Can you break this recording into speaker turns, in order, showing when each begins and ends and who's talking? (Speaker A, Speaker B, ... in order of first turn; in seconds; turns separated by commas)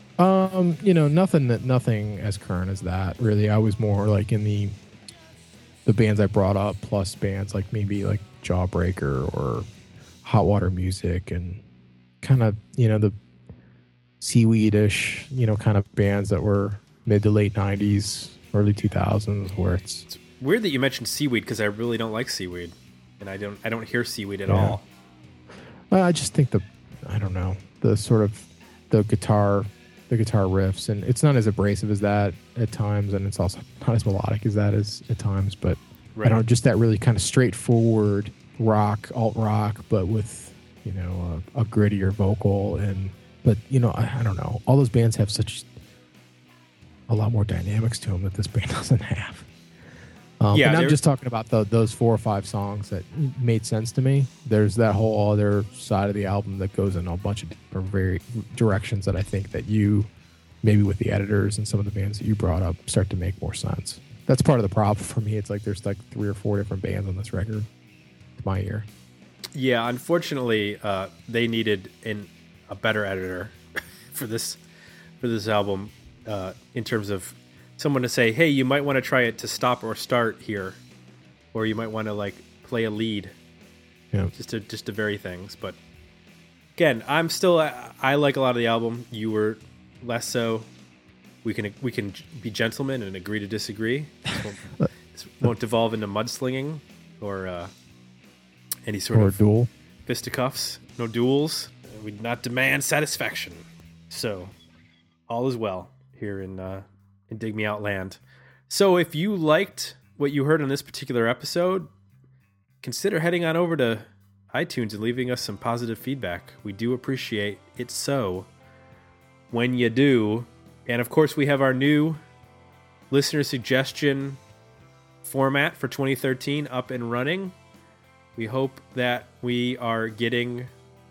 Speaker A: 0.2-4.8, Speaker A: 5.8-9.7, Speaker A: 10.2-11.6, Speaker A: 12.2-13.1, Speaker A: 14.2-20.1, Speaker B: 20.1-24.8, Speaker A: 24.5-24.8, Speaker A: 25.9-45.7, Speaker B: 36.1-36.4, Speaker A: 47.1-49.5, Speaker A: 50.4-60.1, Speaker B: 50.5-51.0, Speaker A: 60.6-67.7, Speaker A: 68.4-68.9, Speaker B: 69.5-73.6, Speaker B: 74.1-74.6, Speaker B: 75.2-80.8, Speaker B: 81.5-83.3, Speaker B: 84.3-85.8, Speaker B: 86.8-90.7, Speaker B: 91.4-97.7, Speaker B: 98.8-99.4, Speaker A: 99.1-99.7, Speaker B: 100.0-104.5, Speaker B: 105.3-111.9, Speaker B: 112.8-118.5, Speaker B: 119.5-122.2, Speaker B: 123.1-124.4, Speaker B: 125.2-127.5, Speaker B: 128.4-130.7